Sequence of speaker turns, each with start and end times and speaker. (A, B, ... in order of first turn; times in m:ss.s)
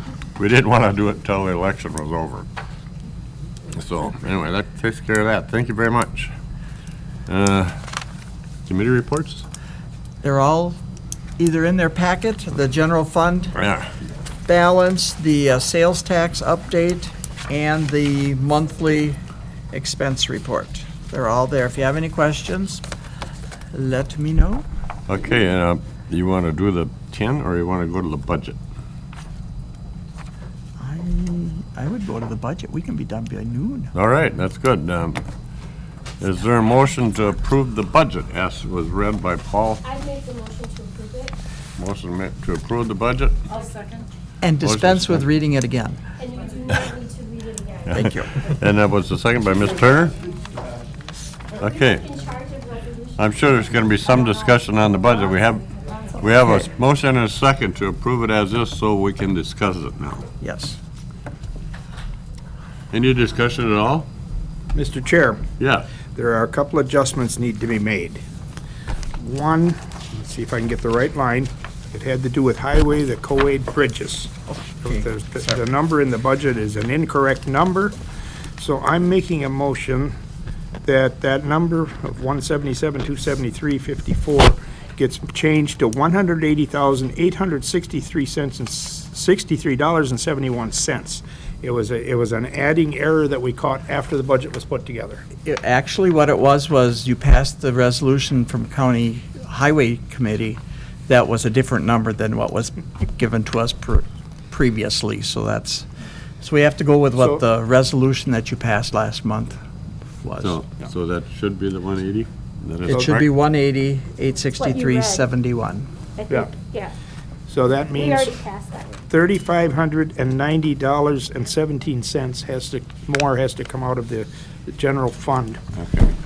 0:00.3-0:02.5 A
0:03.7-0:06.3 A
0:07.3-0:07.9 A
0:08.6-0:09.4 A
0:10.2-0:10.8 B
0:11.4-0:13.6 B
0:13.5-0:13.9 A
0:14.4-0:22.8 B
0:23.7-0:24.6 B
0:25.1-0:28.6 A
0:30.8-0:33.9 B
0:33.9-0:35.2 A
0:36.2-0:39.8 A
0:39.8-0:41.4 C
0:41.8-0:43.4 A
0:44.4-0:46.0 B
0:44.6-0:45.3 A
0:46.2-0:48.2 C
0:47.8-0:50.2 A
0:47.9-0:48.5 B
0:51.6-0:52.1 A
0:51.6-0:53.5 C
0:53.2-1:00.2 A
1:00.4-1:00.8 B
1:02.9-1:04.1 A
1:04.7-1:05.4 D
1:05.6-1:05.9 A
1:06.1-1:08.2 D
1:09.2-1:14.3 D
1:14.5-1:15.6 B
1:14.8-1:18.0 D
1:18.6-1:20.1 D
1:20.8-1:35.2 D
1:35.4-1:45.9 B
1:46.4-1:49.6 B
1:50.2-1:50.6 B
1:50.4-1:53.3 A
1:52.8-1:55.9 B
1:54.4-1:55.2 C
1:56.2-1:56.9 C
1:57.5-1:58.3 D
1:57.9-1:59.0 C
1:59.1-2:05.6 D
2:05.8-2:06.1 A